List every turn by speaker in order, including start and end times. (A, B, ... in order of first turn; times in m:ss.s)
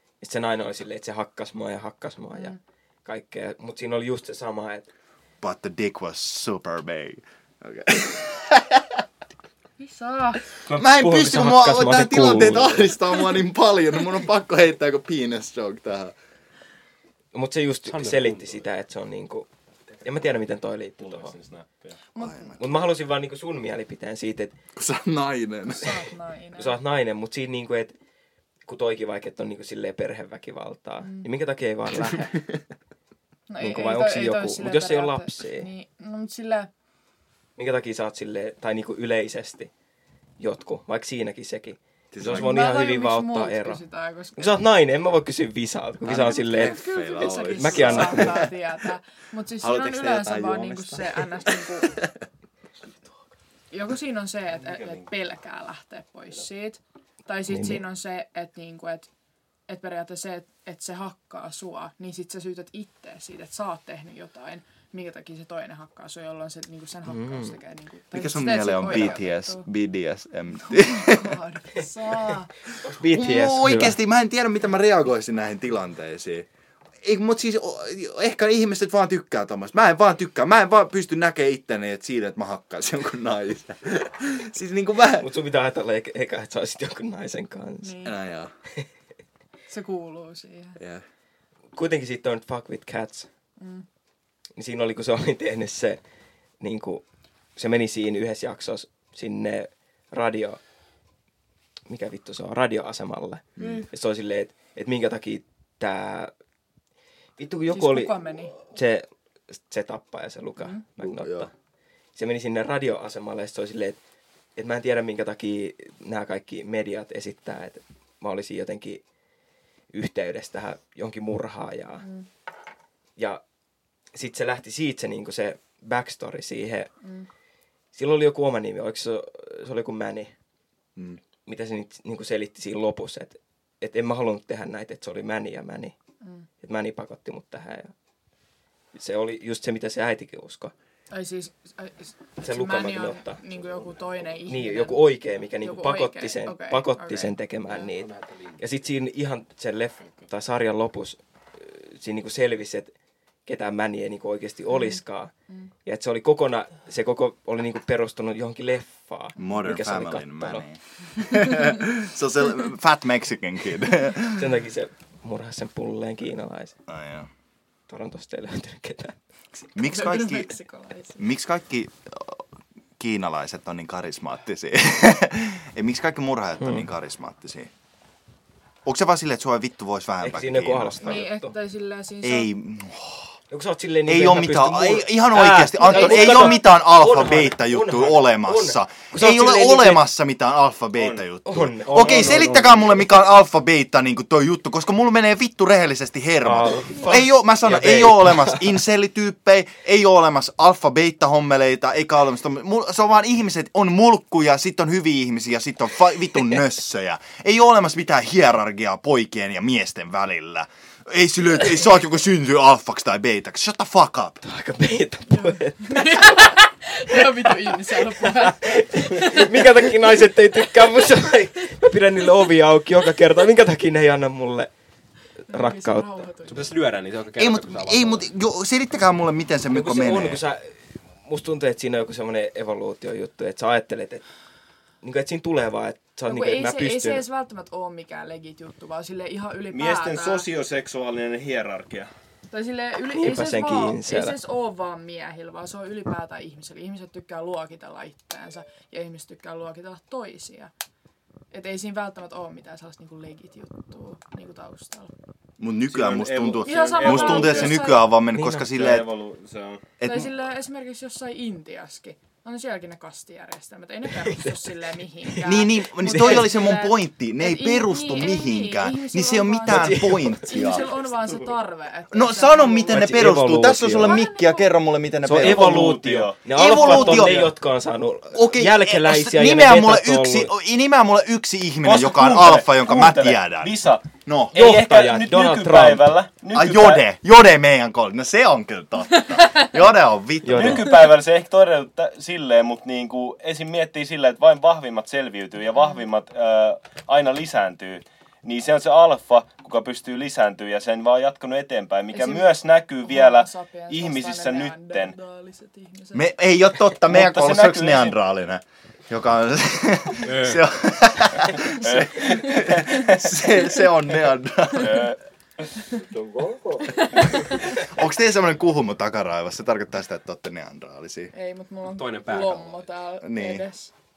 0:00.2-0:04.9 A
0:05.4-0:09.0 B
0:09.8-0:10.4 C
0:10.7-0:13.0 A
0:10.7-0:16.2 B
0:17.3-0:19.5 A
0:17.9-0:18.6 D
0:20.0-0:21.4 A
0:21.0-0:22.0 E
0:22.2-0:22.6 C
0:22.2-0:22.6 B
0:22.6-0:24.6 A
0:24.8-0:26.1 B
0:25.6-0:26.8 C
0:26.6-0:27.9 A
0:28.7-0:32.4 A
0:31.0-0:31.3 C
0:33.5-0:36.7 C
0:33.6-0:35.7 A
0:37.6-0:39.7 A
0:40.4-0:43.8 A
0:42.1-0:42.6 B
0:42.2-0:44.6 C
0:44.4-0:46.8 A
0:46.0-0:48.5 B
0:46.2-0:52.0 C
0:47.5-0:48.4 A
0:49.6-0:52.1 B
0:53.7-0:59.1 C
0:54.6-0:55.1 E
0:57.5-0:57.8 A
0:59.7-1:09.7 C
1:07.1-1:07.6 A
1:08.1-1:11.4 B
1:10.6-1:12.5 C
1:12.8-1:14.0 A
1:12.9-1:16.5 B
1:17.0-1:25.3 B
1:25.2-1:28.0 A
1:27.8-1:28.2 C
1:28.0-1:28.5 B
1:29.7-1:30.8 C
1:30.8-1:31.0 B
1:31.7-1:33.3 A
1:33.6-1:33.9 C
1:34.6-1:36.0 A
1:36.6-1:37.0 A
1:37.6-1:40.6 A
1:41.9-1:46.3 A
1:43.6-1:43.9 B
1:47.4-1:51.5 A
1:47.7-1:48.6 C
1:51.0-1:51.5 B
1:52.2-1:54.0 A
1:54.6-1:59.0 A
1:59.9-2:02.1 A
2:02.0-2:02.3 C
2:03.2-2:03.4 A
2:04.1-2:06.9 A
2:07.0-2:07.3 C
2:07.9-2:10.3 A
2:11.5-2:16.0 A
2:16.2-2:16.5 C
2:16.6-2:17.9 A
2:18.9-2:20.7 A
2:21.1-2:27.4 C
2:22.4-2:23.4 A
2:24.5-2:32.9 A
2:27.8-2:28.6 D
2:33.5-2:35.3 A
2:34.7-2:35.0 C
2:35.8-2:40.7 A
2:39.4-2:44.5 B
2:41.3-2:41.7 C
2:44.3-2:46.8 A
2:46.9-2:47.3 B
2:47.9-2:49.2 A
2:49.7-2:50.6 B
2:49.8-2:51.3 C
2:51.2-2:52.4 B
2:53.0-2:57.7 B
2:56.6-2:56.9 A
2:58.8-3:01.2 B
3:00.2-3:01.5 A
3:01.0-3:02.5 C
3:02.2-3:03.3 B
3:03.5-3:10.1 A
3:04.1-3:34.4 B
3:05.8-3:06.6 C
3:10.9-3:11.2 E
3:11.4-3:12.5 A
3:11.9-3:13.1 D
3:16.4-3:18.8 A
3:34.4-3:36.6 A
3:35.3-3:39.9 C
3:37.1-3:44.7 A
3:45.5-3:46.3 A
3:45.5-3:46.8 C
3:46.5-3:48.3 D
3:47.4-3:50.4 B
3:49.7-3:54.2 A
3:55.0-3:57.2 A
3:56.3-4:00.5 C
3:59.7-4:02.1 E
4:02.5-4:10.7 C
4:03.1-4:04.4 A
4:11.5-4:15.1 C
4:15.6-4:19.1 B
4:15.9-4:17.9 E
4:16.6-4:18.1 C
4:18.3-4:18.7 A
4:18.7-4:19.8 E
4:20.0-4:20.3 B
4:20.0-4:33.2 C
4:24.2-4:24.6 A
4:25.3-4:26.6 A
4:25.4-4:30.9 B
4:29.7-4:30.8 A
4:32.1-4:37.5 B
4:32.9-4:34.2 A
4:34.0-4:34.8 C
4:35.2-4:40.5 A
4:35.4-4:37.5 E
4:38.3-4:44.6 B
4:41.8-4:47.0 E
4:44.5-4:46.1 A
4:46.5-4:51.0 B
4:50.4-4:50.9 A
4:50.5-5:05.2 E
4:55.7-4:56.1 C
5:02.1-5:06.3 C
5:06.1-5:15.2 B
5:07.0-5:08.2 E
5:10.3-5:10.6 E
5:11.6-5:13.5 E
5:14.7-5:17.0 E
5:17.0-5:17.8 C
5:17.5-5:21.3 B
5:21.3-5:23.9 C
5:21.9-5:22.9 D
5:23.2-5:23.7 B